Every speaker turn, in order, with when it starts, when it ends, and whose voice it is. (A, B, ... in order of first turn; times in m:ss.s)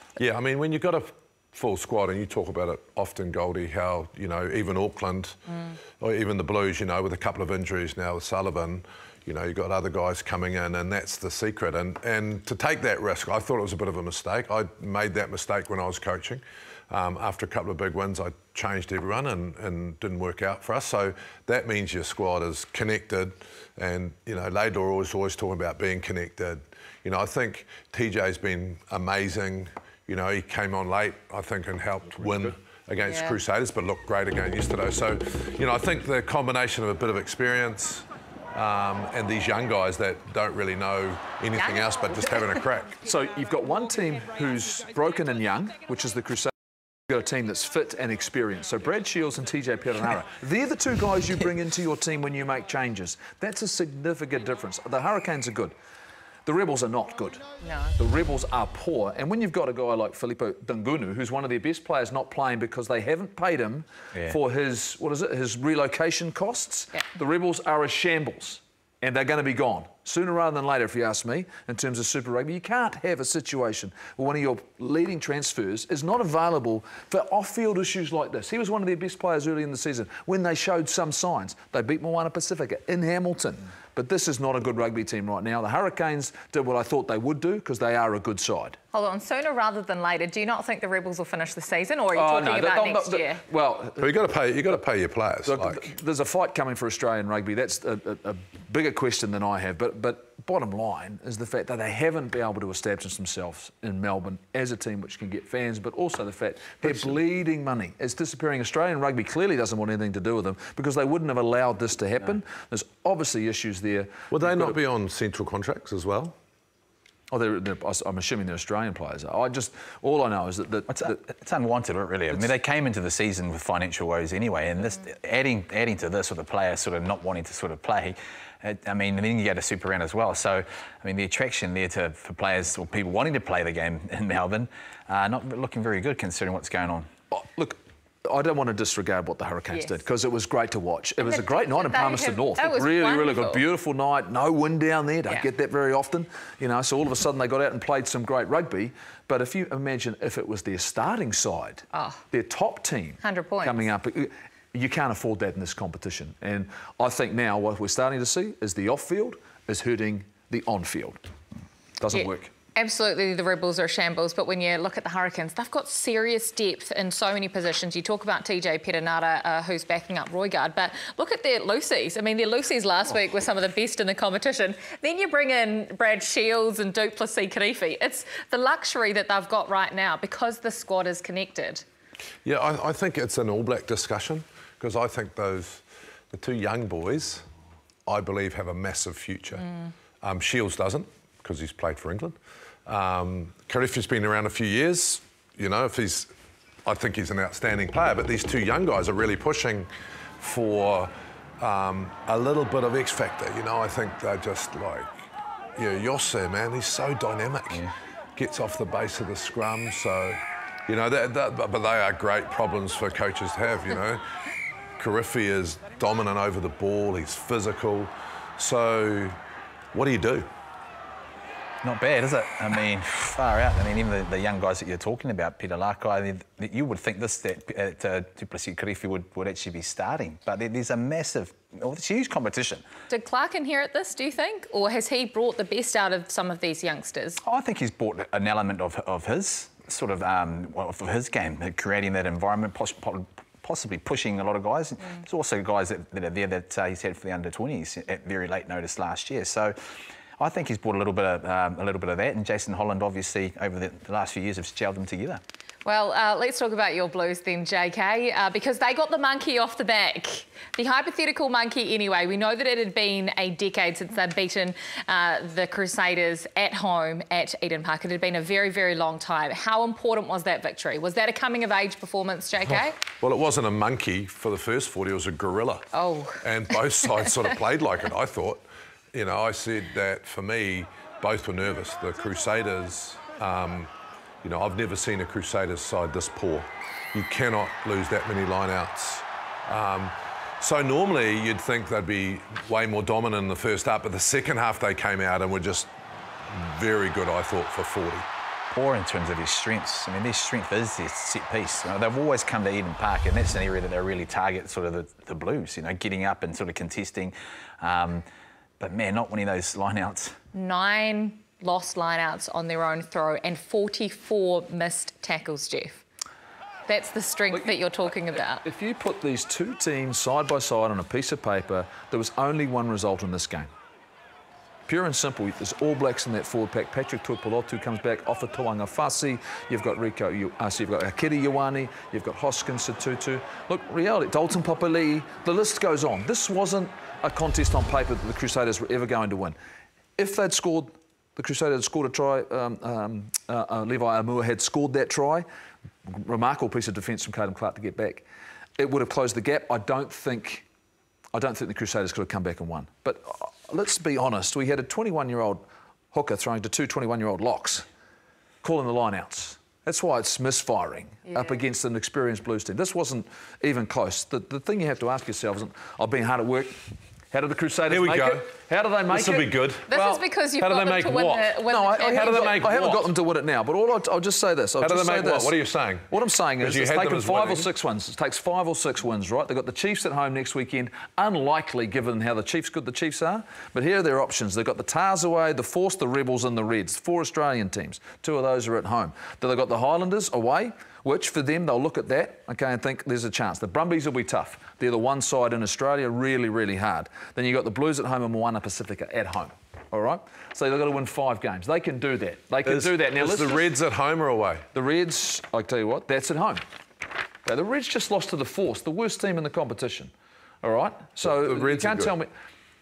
0:00.2-0:43.0 A
0:33.0-0:33.4 B
0:41.5-0:42.4 B
0:43.0-0:46.5 C
0:47.1-0:55.8 C
0:56.4-0:57.4 C
0:57.6-0:57.9 B
0:58.0-1:28.8 C
1:28.9-1:33.4 B
1:32.1-1:34.2 C
1:34.0-1:35.9 A
1:35.4-1:54.8 C
1:46.8-1:47.2 A
1:54.3-1:56.4 A
1:57.3-2:01.2 C
2:00.9-2:17.1 D
2:17.3-2:41.2 C
2:21.2-2:23.6 B
2:31.9-2:32.2 B
2:33.2-2:33.9 B
2:42.0-2:42.5 C
2:42.1-3:01.8 B
3:02.4-3:07.4 A
3:08.1-3:09.7 A
3:10.2-3:16.3 A
3:16.9-3:34.2 A
3:35.0-3:39.4 A
3:39.9-3:40.5 A
3:41.8-3:52.8 D
3:53.1-3:57.4 B
3:57.4-4:09.8 D
4:10.4-4:15.4 D
4:15.8-4:33.0 B
4:33.2-4:43.9 A
4:35.9-4:36.4 B
4:44.4-4:55.9 A
4:56.4-4:58.3 A
4:58.7-5:08.3 D
5:08.8-5:10.4 D
5:10.5-5:16.0 B
5:16.9-5:18.6 B
5:18.6-5:23.7 C
5:24.9-5:39.6 C
5:40.2-5:45.4 C
5:46.1-5:48.2 C
5:48.8-5:50.6 C
5:51.3-5:57.8 C
5:58.6-6:06.8 C
6:07.3-6:09.6 C
6:07.9-6:08.5 A
6:09.1-6:13.1 A
6:09.9-6:12.6 B
6:11.7-6:15.6 C
6:14.8-6:16.1 A
6:16.1-6:43.8 C
6:16.6-6:17.7 A
6:42.7-6:44.7 A
6:44.7-6:46.6 C
6:47.4-6:50.1 C
6:50.6-6:52.3 C
6:51.2-6:52.1 A